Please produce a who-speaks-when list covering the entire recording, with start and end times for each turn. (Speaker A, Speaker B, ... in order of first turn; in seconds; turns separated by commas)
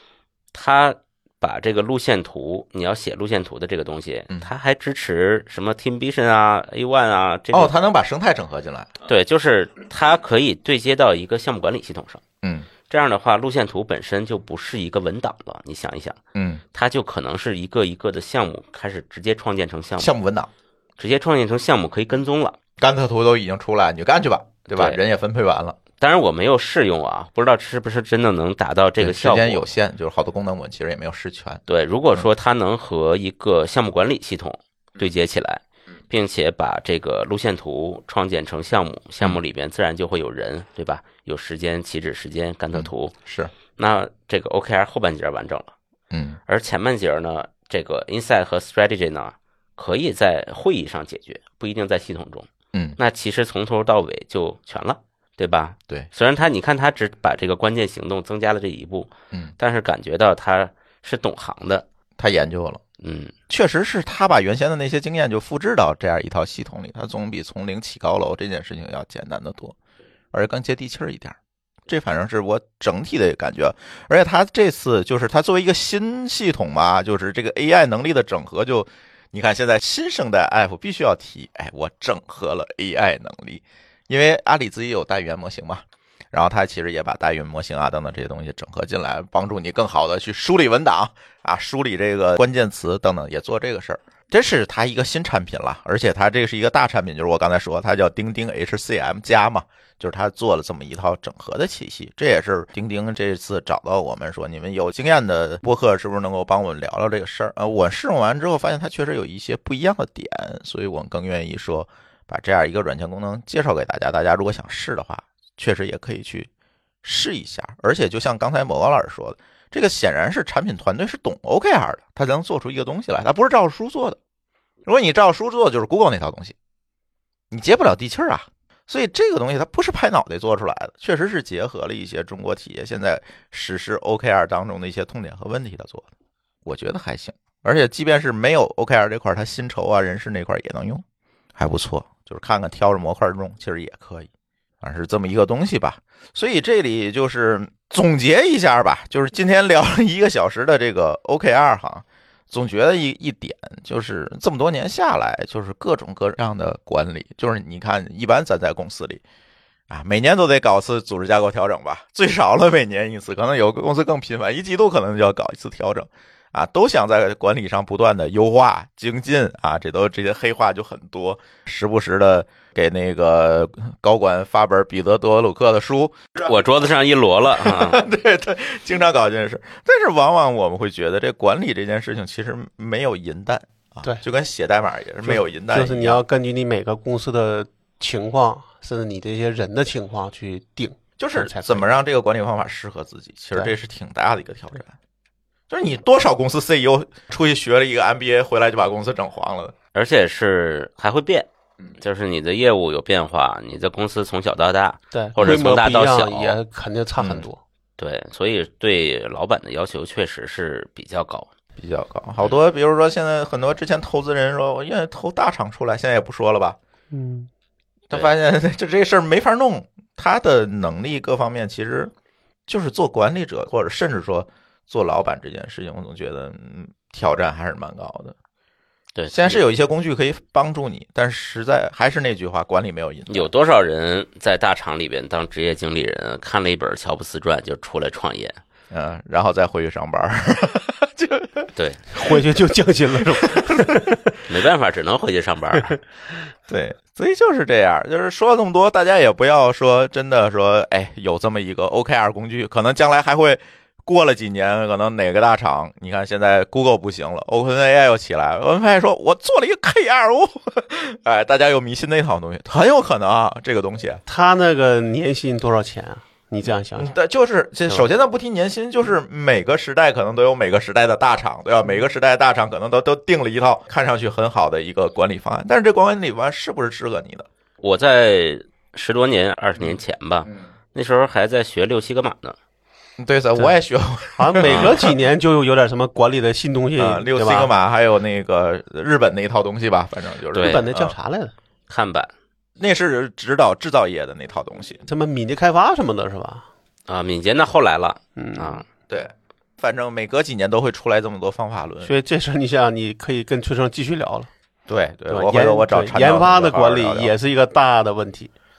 Speaker A: 0.5-7.8, Speaker B: 7.5-8.9, Speaker A: 9.1-12.2, Speaker B: 12.4-12.7, Speaker A: 12.9-16.2, Speaker B: 16.4-16.6, Speaker A: 16.7-20.1, Speaker B: 20.0-20.5, Speaker A: 21.0-22.6, Speaker B: 22.8-25.8, Speaker A: 24.7-25.0, Speaker A: 26.0-29.6, Speaker B: 29.0-31.6, Speaker A: 31.7-43.2, Speaker B: 42.7-43.5, Speaker A: 43.8-45.8, Speaker B: 46.1-46.4, Speaker A: 46.5-61.9, Speaker B: 52.7-53.0, Speaker B: 62.2-62.8, Speaker A: 63.0-63.3, Speaker B: 63.5-69.8, Speaker B: 70.3-71.4, Speaker B: 71.9-116.5, Speaker B: 117.0-124.2, Speaker B: 124.8-126.5, Speaker B: 127.5-136.1, Speaker B: 136.7-141.1, Speaker B: 141.6-144.3, Speaker B: 144.8-159.2, Speaker B: 159.9-176.5, Speaker A: 176.4-178.0, Speaker B: 177.5-186.2, Speaker C: 185.2-191.9, Speaker B: 191.2-195.0, Speaker B: 195.7-199.8, Speaker A: 199.9-206.6, Speaker C: 205.1-207.6, Speaker B: 207.2-207.5, Speaker A: 208.0-211.5, Speaker B: 211.8-216.8, Speaker C: 217.1-217.5, Speaker B: 218.1-222.1, Speaker B: 222.7-228.4, Speaker A: 229.2-229.6, Speaker B: 229.3-233.5, Speaker A: 233.3-238.6, Speaker B: 238.9-241.7, Speaker A: 241.8-242.0, Speaker C: 242.1-244.2, Speaker B: 243.2-244.4, Speaker A: 244.4-246.0, Speaker B: 246.7-264.2, Speaker C: 264.3-267.1, Speaker B: 266.9-277.5, Speaker A: 277.8-282.6, Speaker B: 279.8-280.6, Speaker B: 283.2-285.1, Speaker C: 284.4-287.7, Speaker A: 284.6-284.9, Speaker B: 287.0-291.1, Speaker A: 290.5-290.9, Speaker C: 290.6-291.5, Speaker A: 291.9-292.3, Speaker B: 292.8-295.1, Speaker C: 295.1-296.7, Speaker A: 297.1-298.8, Speaker C: 298.4-298.8, Speaker B: 299.1-302.1, Speaker C: 302.0-304.5, Speaker B: 304.9-307.3, Speaker C: 305.3-308.5